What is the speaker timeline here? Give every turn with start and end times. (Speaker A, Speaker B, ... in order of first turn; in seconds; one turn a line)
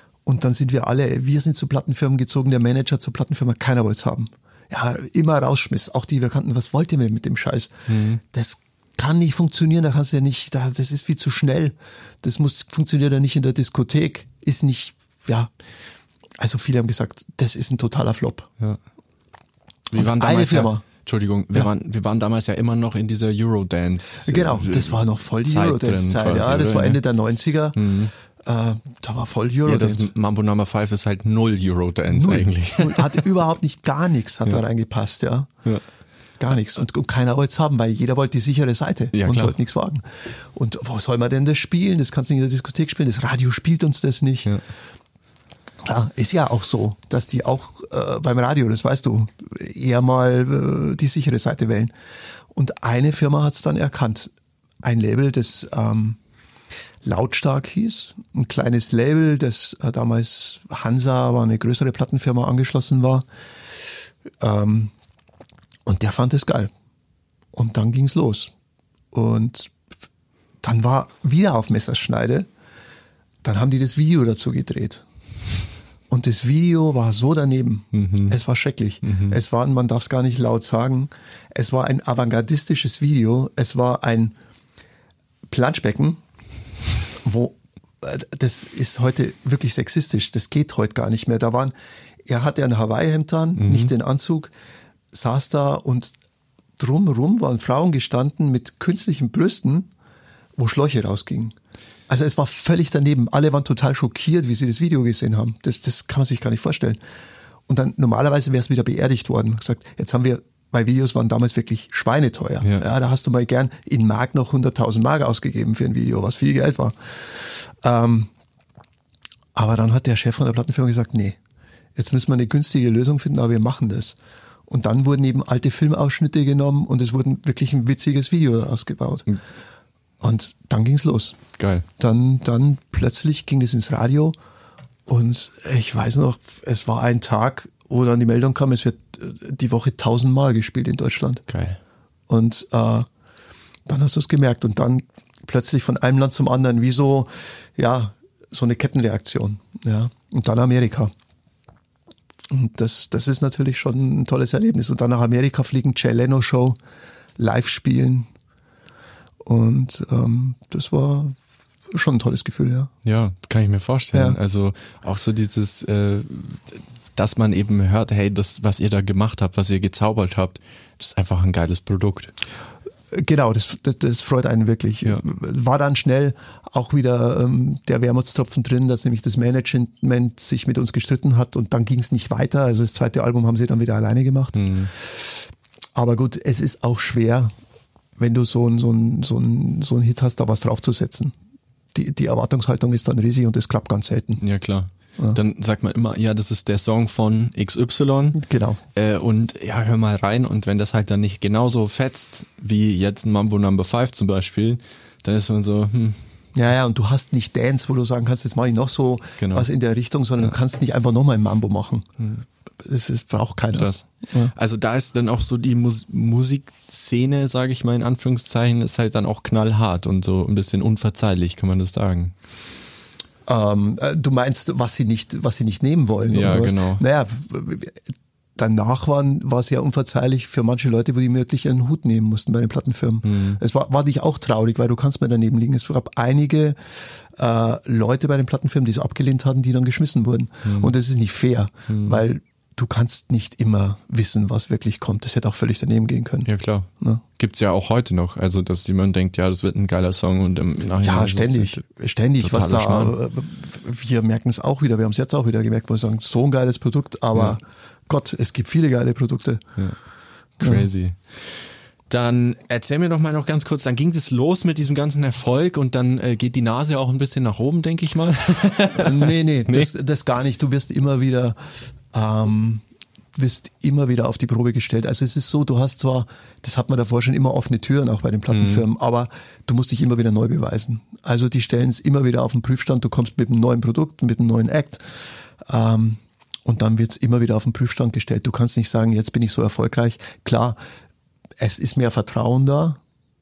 Speaker A: 0.3-15.5
Speaker B: 7.9-8.2
Speaker A: 16.4-18.5
Speaker B: 19.9-27.0
Speaker A: 20.0-20.8
Speaker A: 24.2-27.8
Speaker B: 27.8-28.1
Speaker A: 28.4-30.1
Speaker B: 29.6-33.2
Speaker A: 32.1-35.5
Speaker A: 36.4-44.5
Speaker B: 39.1-39.5
Speaker A: 45.8-51.9
Speaker A: 52.5-54.3
Speaker A: 54.8-56.2
Speaker A: 57.0-63.3
Speaker A: 64.4-64.9
Speaker A: 65.9-66.7
Speaker A: 67.5-68.5
Speaker A: 69.1-69.8
Speaker A: 70.6-72.5
Speaker A: 73.4-75.0
Speaker A: 76.1-84.3
Speaker B: 77.9-78.4
Speaker B: 79.0-79.4
Speaker A: 85.5-86.2
Speaker A: 87.2-91.7
Speaker A: 92.3-94.5
Speaker B: 93.6-93.9
Speaker A: 95.1-96.1
Speaker A: 96.8-99.9
Speaker A: 100.6-101.6
Speaker A: 102.1-107.0
Speaker A: 107.7-118.3
Speaker A: 119.5-121.4
Speaker A: 122.0-129.3
Speaker A: 130.2-131.4
Speaker B: 131.6-131.9
Speaker A: 132.0-134.3
Speaker A: 135.1-141.4
Speaker B: 141.5-141.8
Speaker A: 142.3-143.1
Speaker A: 143.9-151.1
Speaker A: 152.5-156.8
Speaker A: 157.4-158.3
Speaker A: 159.4-161.4
Speaker A: 161.9-162.9
Speaker B: 163.1-172.3
Speaker A: 164.1-164.4
Speaker A: 173.1-185.4
Speaker B: 184.6-184.9
Speaker A: 185.9-187.5
Speaker A: 188.2-191.3
Speaker A: 191.9-194.4
Speaker B: 194.4-198.4
Speaker A: 198.4-198.8
Speaker B: 198.9-206.3
Speaker A: 206.6-212.1
Speaker B: 209.4-209.7
Speaker B: 212.2-212.4
Speaker A: 212.8-214.5
Speaker B: 213.7-222.3
Speaker A: 223.5-228.0
Speaker B: 226.3-227.0
Speaker A: 228.6-246.5
Speaker B: 233.2-233.6
Speaker B: 240.7-240.9
Speaker B: 241.9-242.2
Speaker B: 246.5-251.8
Speaker A: 251.0-259.7
Speaker B: 252.4-253.1
Speaker B: 260.6-269.9
Speaker A: 260.6-260.9
Speaker A: 269.0-290.8
Speaker B: 278.5-278.8
Speaker A: 291.6-293.0